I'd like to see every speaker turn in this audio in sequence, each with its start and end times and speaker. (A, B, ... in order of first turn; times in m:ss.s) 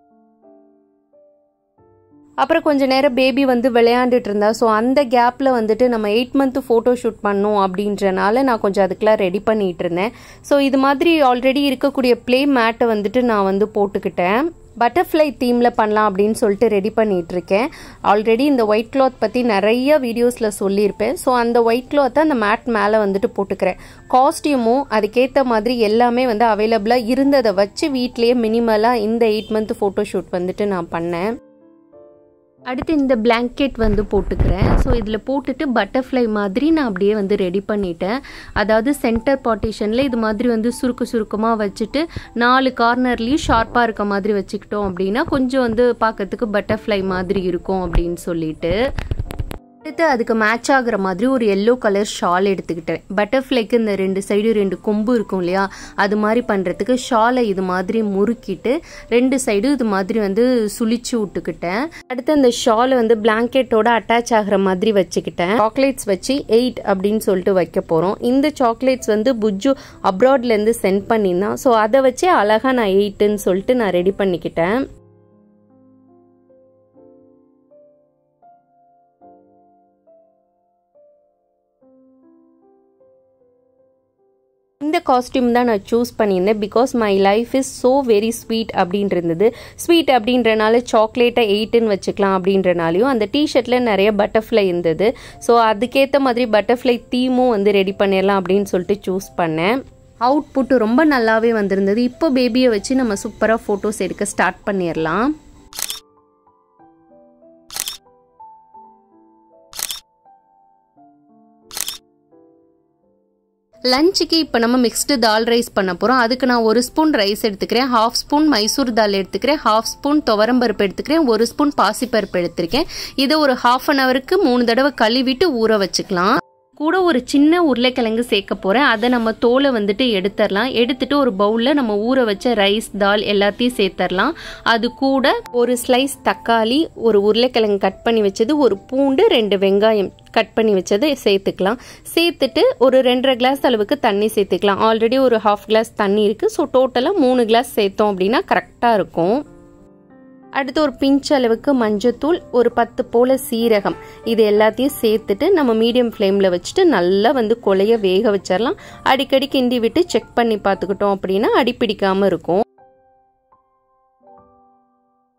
0:02.4-0:31.2 A
0:32.7-0:48.7 A
0:49.8-1:14.8 A
1:24.8-1:39.7 A
1:40.2-1:45.3 A
1:53.9-2:29.4 A
2:30.6-2:42.6 A